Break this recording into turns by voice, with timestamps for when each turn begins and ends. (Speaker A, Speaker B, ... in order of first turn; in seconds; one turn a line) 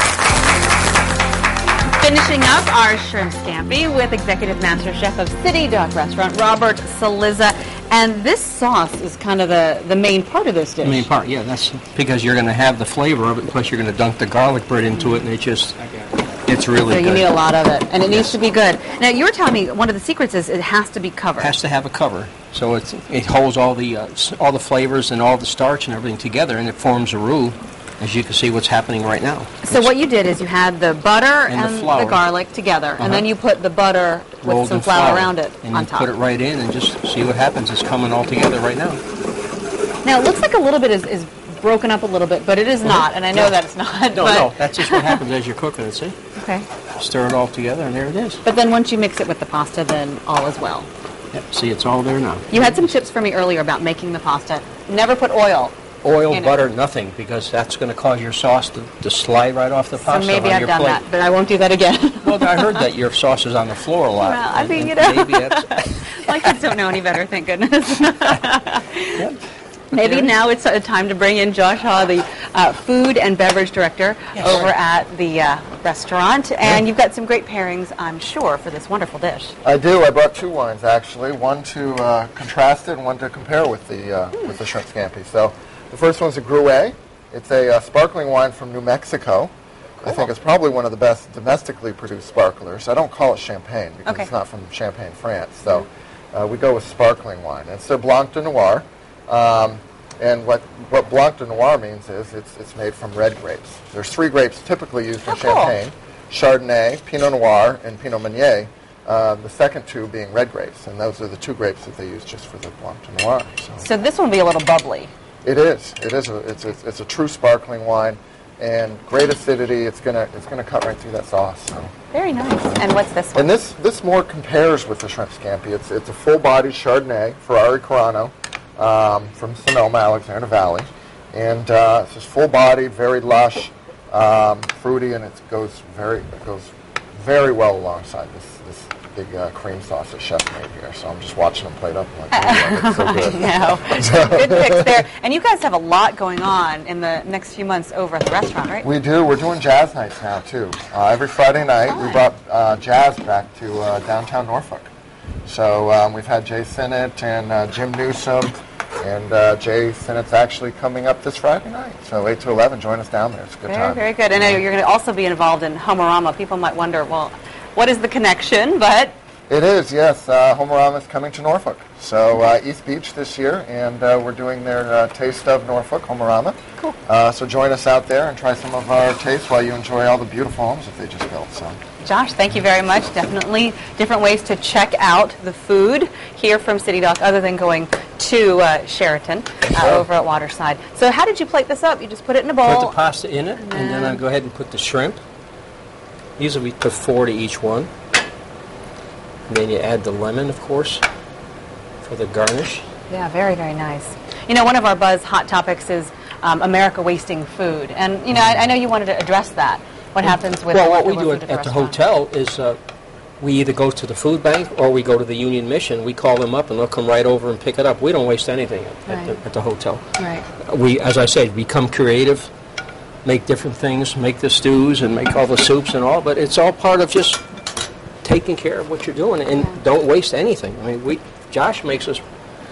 Speaker A: 1.9-11.1
Speaker B: 10.8-17.3
Speaker A: 16.9-21.5
Speaker B: 18.1-18.3
Speaker B: 21.4-29.9
Speaker A: 29.6-36.1
Speaker B: 31.5-32.2
Speaker B: 33.0-33.3
Speaker B: 34.4-39.0
Speaker A: 40.0-45.2
Speaker B: 42.8-43.6
Speaker B: 44.1-46.1
Speaker A: 46.4-46.6
Speaker B: 46.9-48.4
Speaker A: 48.4-50.9
Speaker B: 51.3-52.9
Speaker A: 52.5-55.7
Speaker B: 56.0-61.0
Speaker A: 56.3-56.6
Speaker A: 60.0-62.9
Speaker B: 62.2-66.6
Speaker A: 64.2-69.2
Speaker A: 69.9-79.5
Speaker B: 69.9-70.3
Speaker B: 74.3-74.7
Speaker C: 79.6-113.8
Speaker A: 105.3-105.8
Speaker A: 113.8-115.1
Speaker C: 115.4-121.9
Speaker A: 122.1-123.5
Speaker C: 123.3-145.0
Speaker A: 142.3-148.9
Speaker C: 148.8-154.9
Speaker A: 151.9-152.2
Speaker C: 155.4-164.0
Speaker A: 163.7-169.1
Speaker C: 169.5-181.8
Speaker A: 182.0-192.9
Speaker B: 189.7-190.1
Speaker B: 192.6-195.2
Speaker A: 193.6-194.2
Speaker B: 196.4-197.9
Speaker B: 199.5-201.0
Speaker B: 202.0-202.8
Speaker A: 203.1-212.0
Speaker B: 210.3-212.8
Speaker B: 213.4-222.5
Speaker A: 219.1-219.3
Speaker A: 220.2-220.4
Speaker B: 223.2-227.4
Speaker B: 228.2-232.2